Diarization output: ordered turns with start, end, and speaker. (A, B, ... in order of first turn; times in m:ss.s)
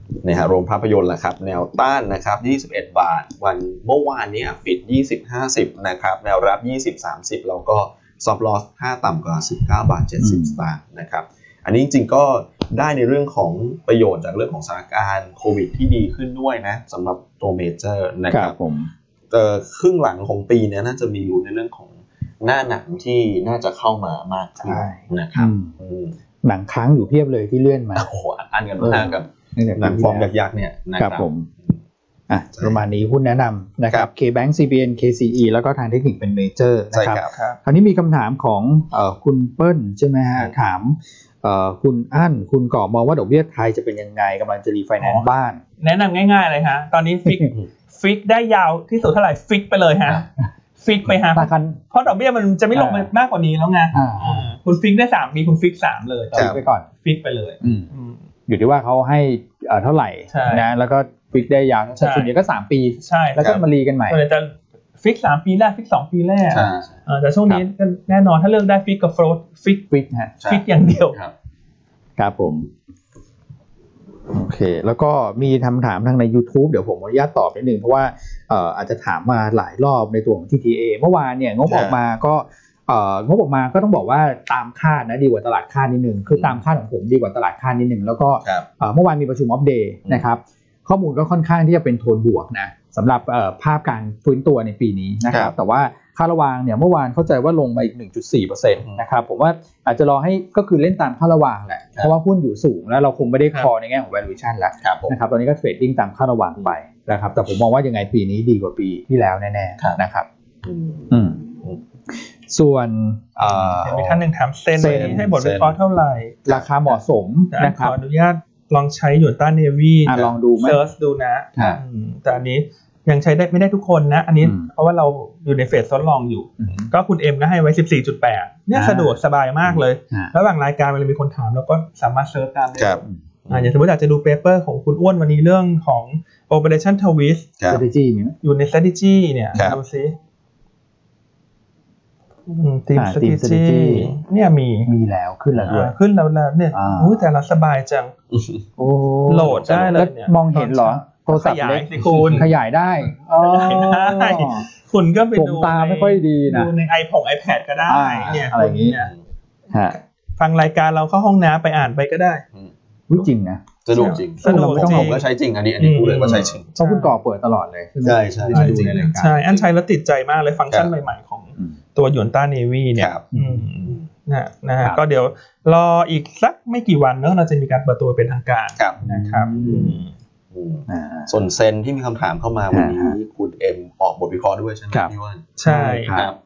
0:00.2-0:18.5 A
0:10.2-0:10.6 B
0:18.3-0:18.9 B
0:19.3-0:26.1 A
0:24.6-0:25.7 B
0:26.4-0:28.1 B
0:28.0-0:31.8 A
0:28.8-0:30.3 B
0:31.0-0:31.5 B
0:32.3-0:45.6 B
0:36.9-0:37.3 A
0:37.3-0:37.6 C
0:45.0-0:45.3 C
0:45.8-0:50.2 C
0:47.2-0:47.5 B
0:50.8-0:56.5 C
0:51.3-0:51.8 B
0:52.7-0:53.1 B
0:53.9-0:54.5 B
0:56.3-0:56.8 B
0:56.3-0:56.6 A
0:57.0-0:58.2 C
0:57.6-0:57.9 B
0:58.5-1:04.2 B
1:00.3-1:00.7 C
1:02.0-1:02.3 C
1:03.0-1:03.5 C
1:04.1-1:09.8 C
1:06.5-1:07.0 A
1:09.9-1:10.3 B
1:10.4-1:11.3 A
1:10.4-1:11.2 C
1:12.2-1:12.7 B
1:14.3-1:50.3 B
1:21.6-1:22.0 A
1:26.3-1:26.6 A
1:44.8-1:45.1 A
1:50.6-1:51.8 A
1:51.1-1:51.4 B
1:52.1-1:54.0 B
1:53.4-1:54.2 A
1:53.8-1:56.4 C
1:54.8-1:55.3 B
1:54.8-1:55.7 A
1:56.4-1:58.0 B
1:57.5-2:17.5 C
2:00.0-2:00.8 B
2:00.1-2:00.3 A
2:06.6-2:06.9 B
2:08.7-2:09.2 B
2:12.7-2:13.7 A
2:17.7-2:18.3 B
2:18.4-2:20.1 C
2:22.5-2:24.9 C
2:22.9-2:24.1 B
2:24.8-2:25.9 B
2:25.7-2:28.1 C
2:26.7-2:27.2 B
2:28.3-2:28.6 A
2:28.8-2:34.7 B
2:29.3-2:32.5 C
2:29.4-2:30.0 A
2:32.0-2:32.4 A
2:33.4-2:39.1 C
2:35.3-2:36.7 B
2:37.9-2:39.0 B
2:38.2-2:39.1 A
2:39.7-2:40.0 B
2:40.4-2:42.4 C
2:42.5-2:43.3 A
2:43.1-2:43.7 B
2:43.8-2:46.6 A
2:43.9-2:45.2 C
2:44.4-2:45.2 B
2:45.8-2:47.2 C
2:46.2-2:49.4 B
2:48.0-2:49.6 A
2:48.5-3:00.1 C
2:53.0-2:53.2 A
2:53.3-2:53.6 B
2:59.0-3:00.0 B
2:59.5-2:59.9 A
3:00.5-3:05.6 A
3:00.9-3:01.4 B
3:02.7-3:03.2 B
3:05.6-3:06.2 C
3:05.6-3:06.3 B
3:06.1-3:06.4 A